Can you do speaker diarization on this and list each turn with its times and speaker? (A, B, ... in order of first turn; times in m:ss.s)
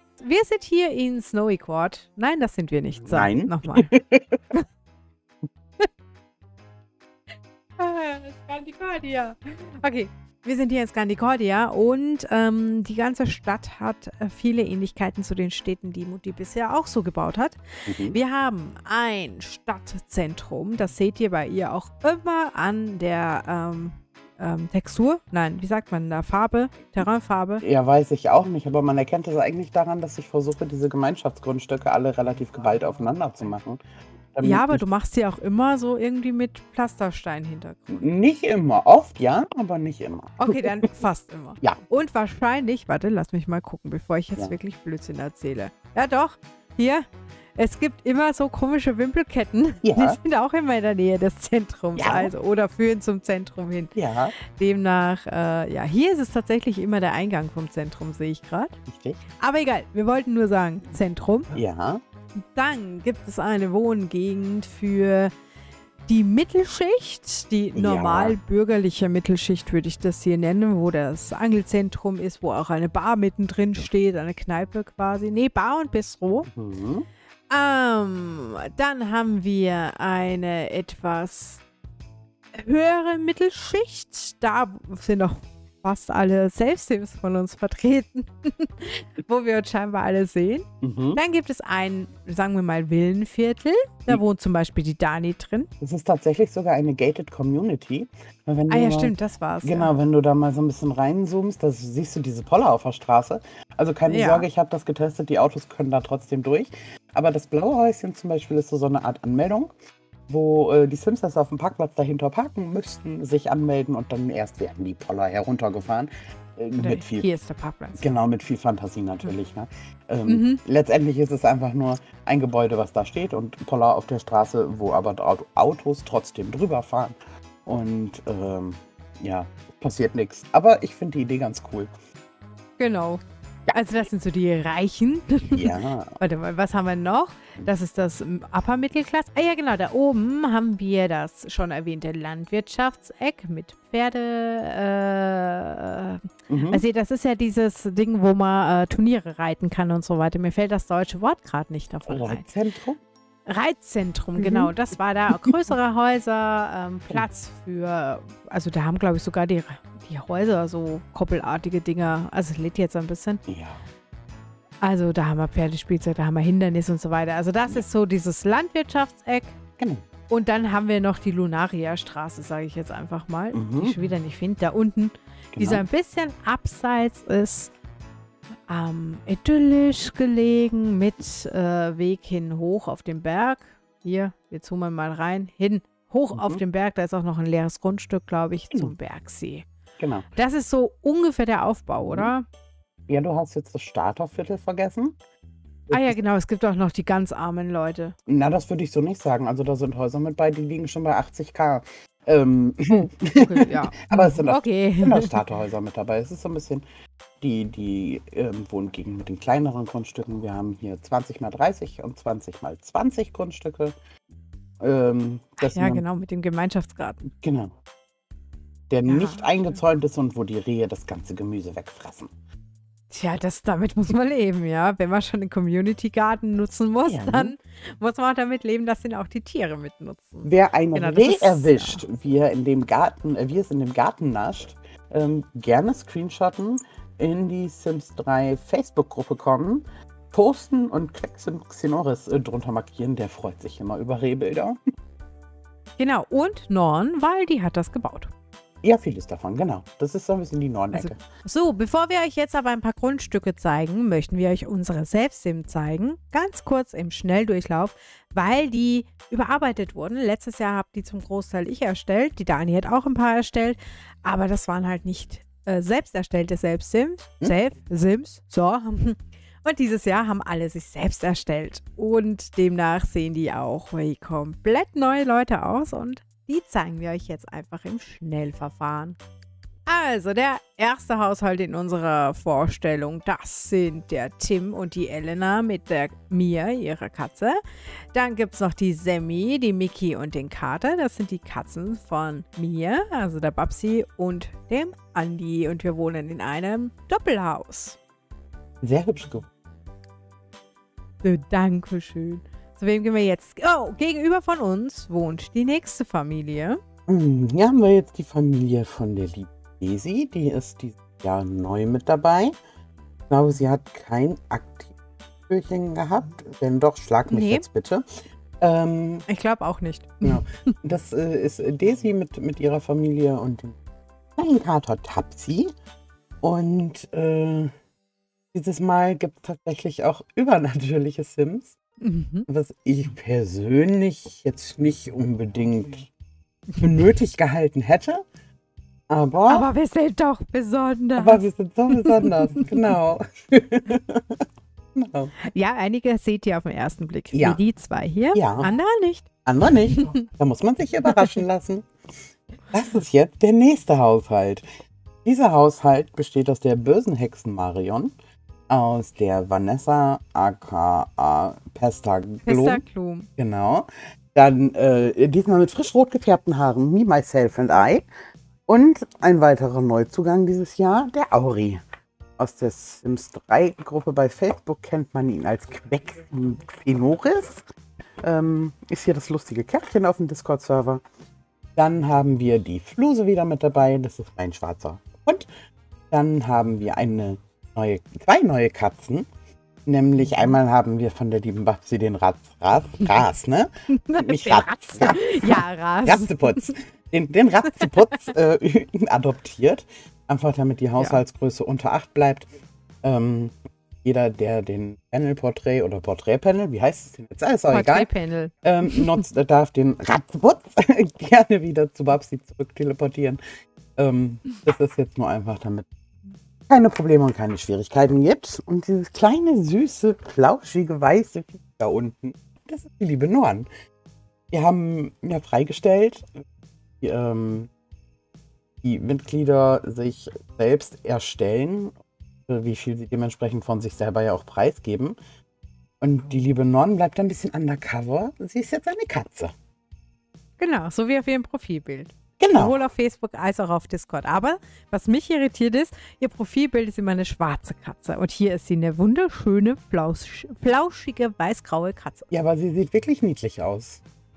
0:00.2-0:03.9 A
0:03.0-0:04.4 B
0:07.8-0:27.6 A
0:17.9-0:18.2 B
0:27.6-0:33.8 B
0:34.3-0:34.8 B
0:34.4-0:38.0 A
0:37.9-0:40.7 B
0:40.4-0:47.0 A
0:47.6-0:58.8 A
0:49.8-0:50.2 B
0:52.0-0:52.3 B
0:53.9-0:54.3 B
0:58.9-0:59.2 B
0:59.4-1:01.5 A
1:01.5-1:02.0 B
1:02.5-1:05.3 A
1:06.1-1:16.5 A
1:07.7-1:08.4 B
1:16.5-1:17.1 B
1:17.5-1:21.6 A
1:22.5-1:35.7 A
1:30.8-1:31.2 B
1:35.8-1:49.7 B
1:38.7-1:39.9 A
1:44.1-1:44.5 A
1:50.3-1:57.2 B
1:56.8-1:58.0 A
1:58.0-2:11.9 B
2:00.3-2:00.6 A
2:12.8-2:32.4 A
2:15.5-2:16.2 B
2:26.5-2:26.8 B
2:32.0-2:33.0 B
2:33.5-2:43.4 A
2:34.4-2:34.7 B
2:43.5-2:43.8 B
2:44.8-2:49.6 A
2:49.8-2:50.1 B
2:50.3-2:57.7 A
2:53.5-2:54.0 B
2:55.5-2:55.8 B
2:58.7-3:09.7 A
3:06.3-3:06.6 B
3:10.0-3:10.3 B
3:10.3-3:12.4 A
3:13.1-3:15.2 B
3:15.9-3:16.2 B
3:15.9-3:18.1 A
3:18.3-3:26.8 B
3:22.9-3:25.4 A
3:27.4-3:33.9 B
3:34.8-3:36.0 B
3:35.6-3:37.2 A
3:37.3-3:37.7 B
3:38.9-3:42.3 B
3:39.1-3:39.5 A
3:43.1-3:52.0 A
3:47.0-3:47.5 B
3:50.4-4:04.8 B
4:06.0-4:08.3 A
4:08.8-4:11.2 B
4:10.9-4:39.2 A
4:39.8-4:47.6 A
4:48.1-4:58.0 A
4:58.8-4:59.5 B
5:01.2-5:06.8 A
5:07.1-5:12.5 B
5:13.3-5:14.9 B
5:15.5-5:18.0 B
5:17.3-5:17.6 A
5:18.6-5:19.2 B
5:19.3-5:20.4 A
5:20.2-5:23.8 B
5:24.4-5:25.7 B
5:26.4-5:27.7 B
5:28.5-5:31.8 B
5:32.0-5:32.5 A
5:32.5-5:36.1 B
5:36.8-5:38.2 B
5:39.1-5:39.7 B
5:39.5-5:42.7 A
5:41.2-5:44.4 B
5:44.9-5:45.3 B
5:45.4-5:49.3 A
5:47.3-5:47.6 B
5:48.3-5:48.7 B
5:49.4-5:51.9 B
5:49.9-5:50.2 A
5:51.1-5:51.4 A
5:52.7-5:54.6 B
5:55.2-5:58.1 B
5:58.7-6:02.8 B
6:02.4-6:03.3 A
6:03.4-6:08.0 B
6:08.7-6:11.8 B
6:12.4-6:17.6 B
6:18.2-6:21.0 B
6:21.8-6:25.5 B
6:26.1-6:29.3 B
6:29.8-6:42.5 B
6:33.9-6:36.7 A
6:43.0-6:48.1 B
6:47.7-6:49.1 A
6:48.6-6:53.4 B
6:54.0-6:55.9 B
6:56.7-7:03.7 B
7:04.5-7:06.3 B
7:07.0-7:07.7 B
7:08.8-7:15.2 B
7:16.0-7:19.5 B
7:20.6-7:32.3 A
7:22.4-7:22.8 B
7:32.3-7:34.0 B